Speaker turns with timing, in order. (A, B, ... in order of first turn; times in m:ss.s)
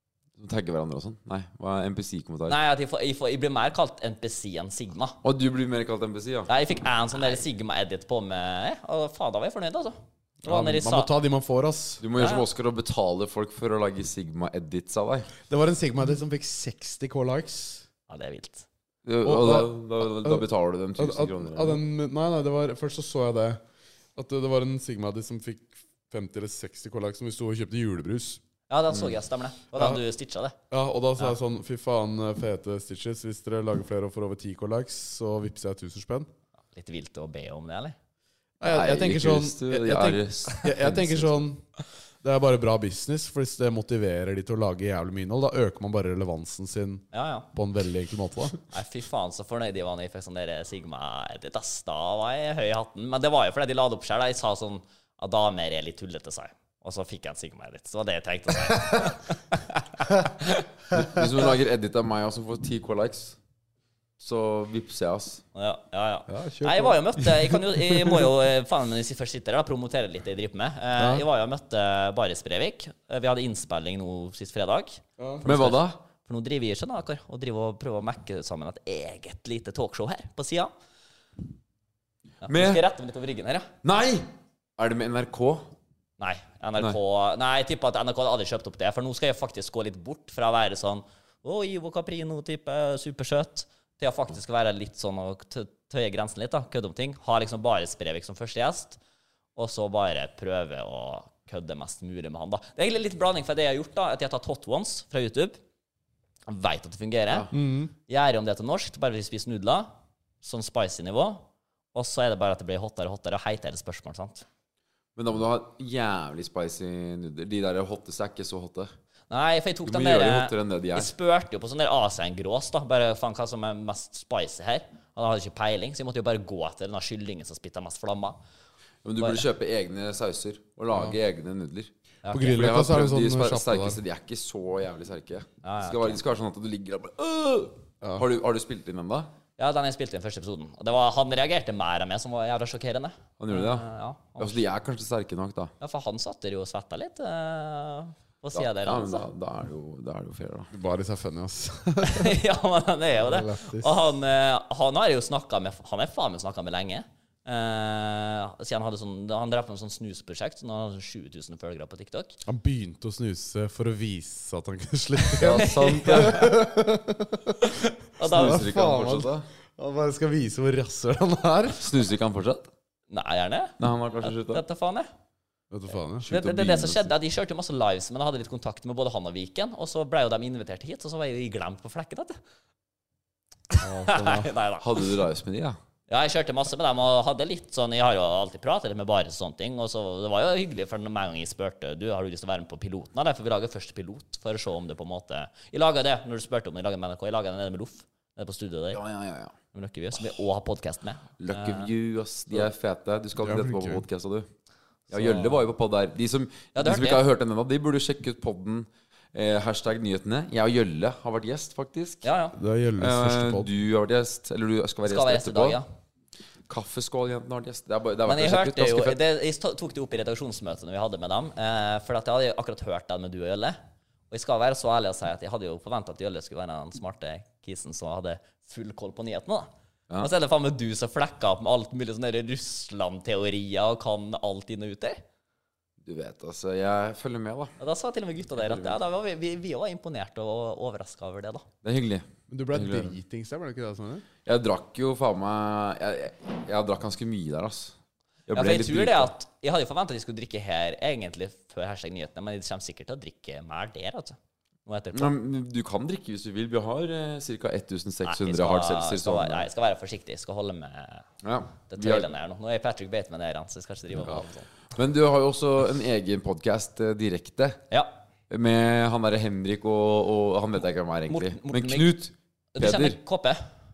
0:00.4-0:02.6 A
0:02.5-0:05.2 B
0:05.2-0:06.5 A
0:06.5-0:11.1 B
0:10.4-0:12.0 C
0:12.0-0:15.3 A
0:12.2-0:12.4 B
0:15.5-0:17.8 C
0:18.1-0:18.6 B
0:19.0-0:21.8 A
0:19.2-0:20.4 C
0:21.0-0:23.6 C
0:24.2-0:28.4 C
0:28.7-0:30.5 B
0:29.7-0:30.0 C
0:30.7-0:36.3 C
0:36.7-0:37.9 B
0:38.6-0:41.6 C
0:38.7-0:41.4 A
0:42.2-0:48.6 C
0:47.1-0:47.5 B
0:48.7-1:00.6 B
1:00.9-1:03.4 A
1:04.2-1:05.4 A
1:05.5-1:20.7 B
1:06.3-1:08.2 C
1:11.0-1:11.2 C
1:15.2-1:15.4 C
1:15.4-1:16.0 A
1:22.4-1:23.7 B
1:22.5-1:22.8 A
1:23.8-1:24.2 A
1:24.8-1:25.7 A
1:26.2-1:39.0 B
1:39.6-1:45.6 B
1:46.5-1:47.5 B
1:47.5-1:47.9 C
1:48.1-1:49.9 B
1:50.4-1:54.4 B
1:55.2-1:58.9 A
1:59.3-2:08.4 B
1:59.8-2:01.1 A
2:09.0-2:19.3 A
2:12.2-2:12.6 B
2:12.3-2:14.0 C
2:15.6-2:16.2 B
2:19.6-2:24.6 B
2:23.4-2:23.9 A
2:24.4-2:25.7 A
2:25.8-2:29.3 B
2:28.5-2:30.7 A
2:30.7-2:32.4 C
2:32.0-2:42.4 B
2:33.2-2:33.9 C
2:42.4-2:47.6 C
2:45.4-2:46.5 A
2:45.5-2:46.6 B
2:47.6-2:48.6 B
2:48.2-2:49.5 A
2:48.2-2:51.8 C
2:51.7-2:52.7 A
2:53.1-2:55.1 B
2:53.8-2:54.6 A
2:55.7-2:56.3 C
2:56.2-2:57.1 A
2:56.3-3:02.4 B
3:03.7-3:05.0 B
3:03.8-3:04.5 C
3:04.8-3:05.8 A
3:06.1-3:19.0 B
3:18.9-3:19.5 A
3:19.7-3:21.9 B
3:21.4-3:24.5 A
3:23.4-3:24.0 C
3:25.1-3:32.3 A
3:25.1-3:25.6 B
3:26.7-3:27.2 B
3:32.2-3:32.6 B
3:32.6-3:33.7 C
3:33.0-3:35.8 A
3:35.0-3:35.8 B
3:36.7-3:39.2 A
3:38.2-3:43.8 B
3:44.3-3:49.7 B
3:50.2-3:55.2 B
3:56.0-3:57.8 A
3:57.8-4:01.6 B
3:58.6-3:59.0 A
4:01.8-4:03.1 A
4:02.5-4:04.2 C
4:04.4-4:07.9 A
4:08.5-4:09.3 A
4:08.5-4:15.3 B
4:15.1-4:19.7 A
4:18.2-4:21.2 B
4:21.4-4:22.3 A
4:21.9-4:24.7 B
4:24.9-4:27.8 A
4:28.5-4:33.2 A
4:31.3-4:32.1 B
4:32.8-4:33.6 B